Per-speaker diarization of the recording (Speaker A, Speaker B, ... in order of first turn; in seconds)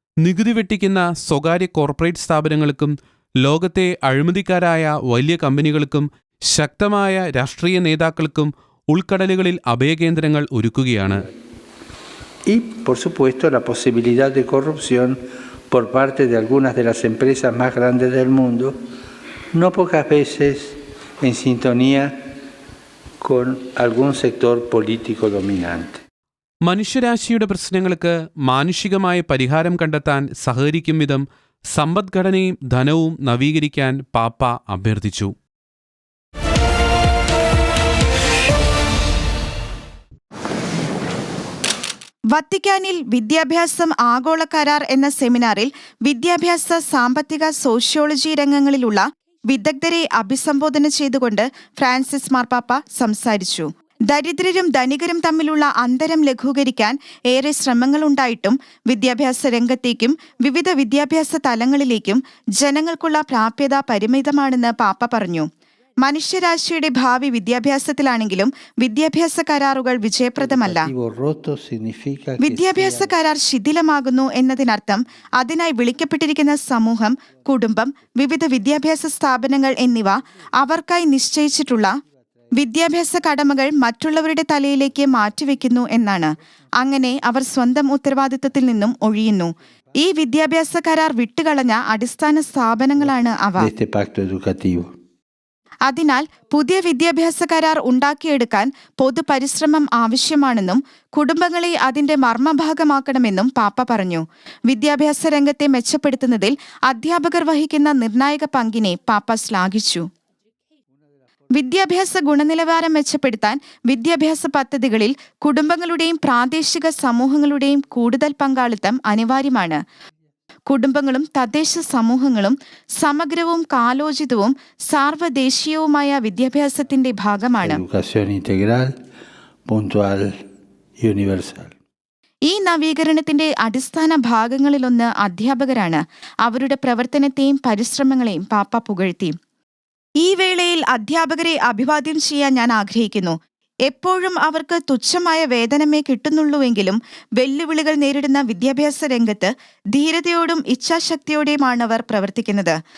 Speaker A: 0.2-11.3, 26.7-31.2, 31.7-35.3
Speaker B: 12.5-15.2, 15.7-18.7, 19.5-22.1, 23.2-26.0, 70.4-73.2, 93.6-94.9, 127.6-128.9, 129.7-130.4, 131.0-131.8
Speaker C: 42.3-65.5, 66.0-70.9, 72.4-81.9, 82.6-93.7, 95.9-110.1, 111.5-119.8, 120.7-127.8, 132.5-139.4, 140.2-152.8